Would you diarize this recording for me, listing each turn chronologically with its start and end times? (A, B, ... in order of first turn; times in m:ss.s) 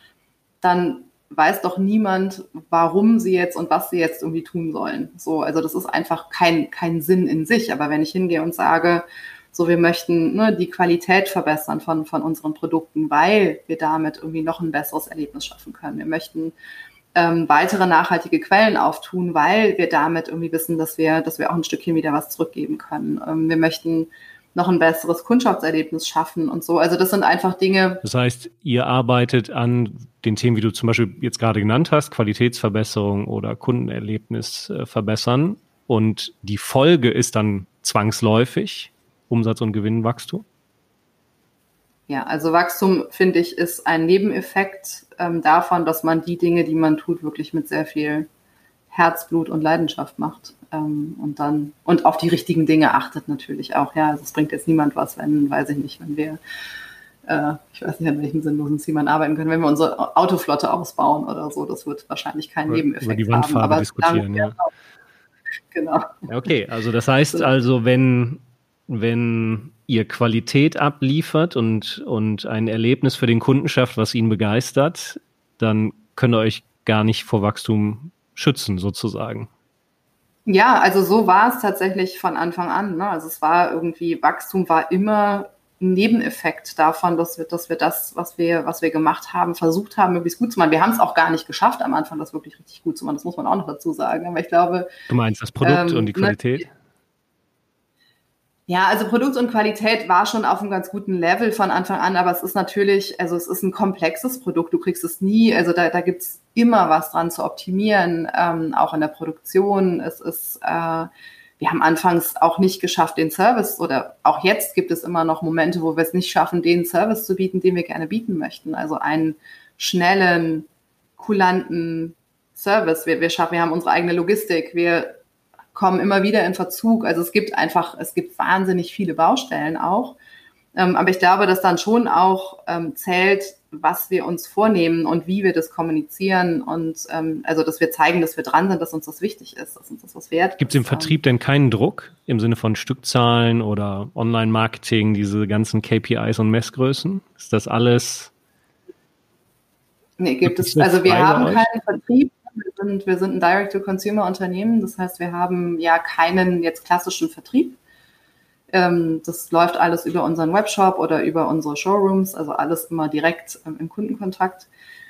0:00.6-0:16.5 A
0:17.1-0:28.0 A
0:28.0-0:40.4 B
0:42.1-0:48.3 A
0:48.9-0:56.4 A
0:57.2-1:04.7 A
1:02.7-1:04.6 B
1:05.7-1:06.3 A
1:06.3-1:19.5 B
1:20.5-1:34.9 A
1:35.1-1:36.7 B
1:35.6-1:36.6 A
1:38.7-1:51.1 A
1:51.6-2:05.2 A
2:05.7-2:10.2 A
2:10.7-2:21.2 A
2:20.6-2:28.3 B
2:30.2-2:37.8 A
2:30.4-2:31.7 B
2:38.7-2:44.7 A